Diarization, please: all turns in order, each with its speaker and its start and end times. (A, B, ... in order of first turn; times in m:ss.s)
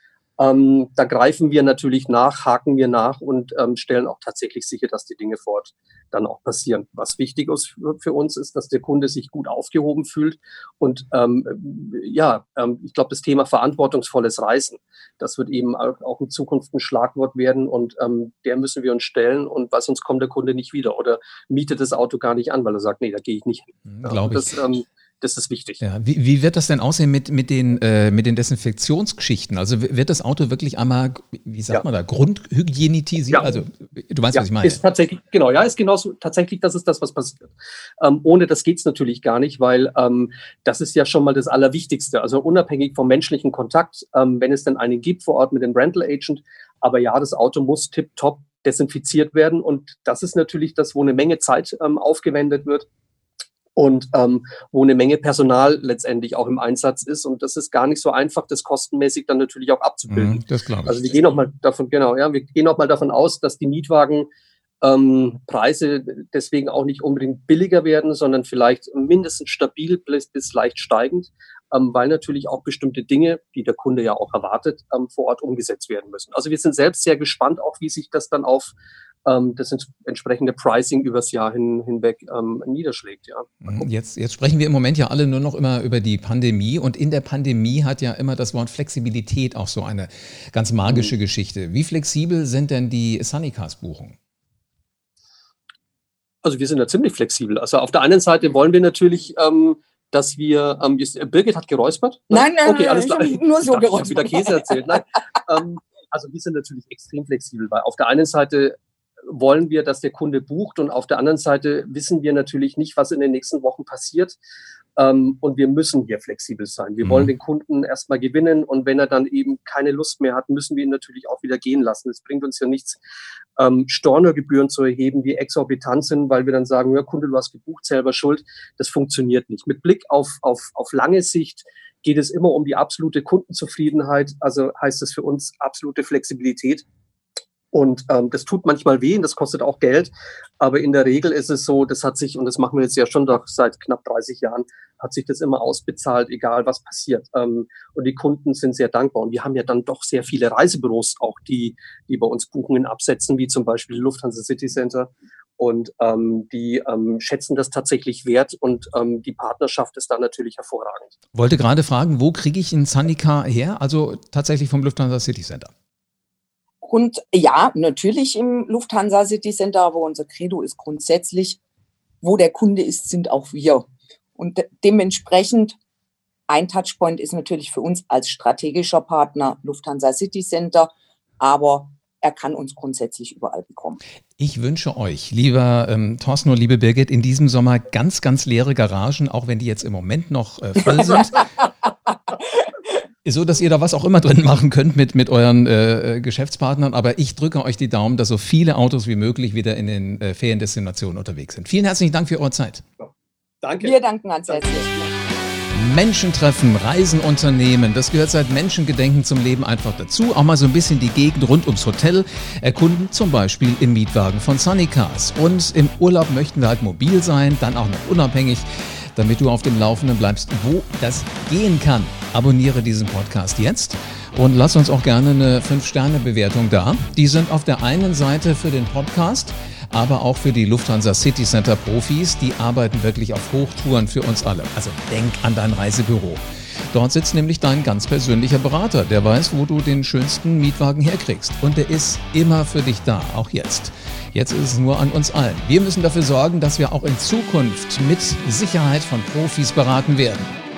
0:00.4-0:25.8 A
0:23.9-0:24.5 B
0:25.8-0:34.8 B
0:33.3-0:33.6 A
0:34.3-0:52.9 A
0:53.8-1:04.3 A
1:00.1-1:01.0 B
1:04.8-1:18.7 A
1:19.2-1:23.8 A
1:23.6-1:34.2 B
1:36.4-1:48.8 A
1:42.3-1:44.8 C
1:49.3-1:54.4 A
1:55.0-2:03.0 A
1:57.0-1:57.3 B
2:03.6-2:16.8 A
2:17.7-2:41.2 A
2:41.3-2:45.7 B
2:46.8-2:51.6 C
2:52.2-2:55.8 C
2:56.5-3:04.0 C
3:04.4-3:11.4 B
3:13.2-3:22.8 B
3:23.6-3:24.0 A
3:23.8-3:24.9 C
3:24.5-3:25.1 A
3:25.7-4:10.6 B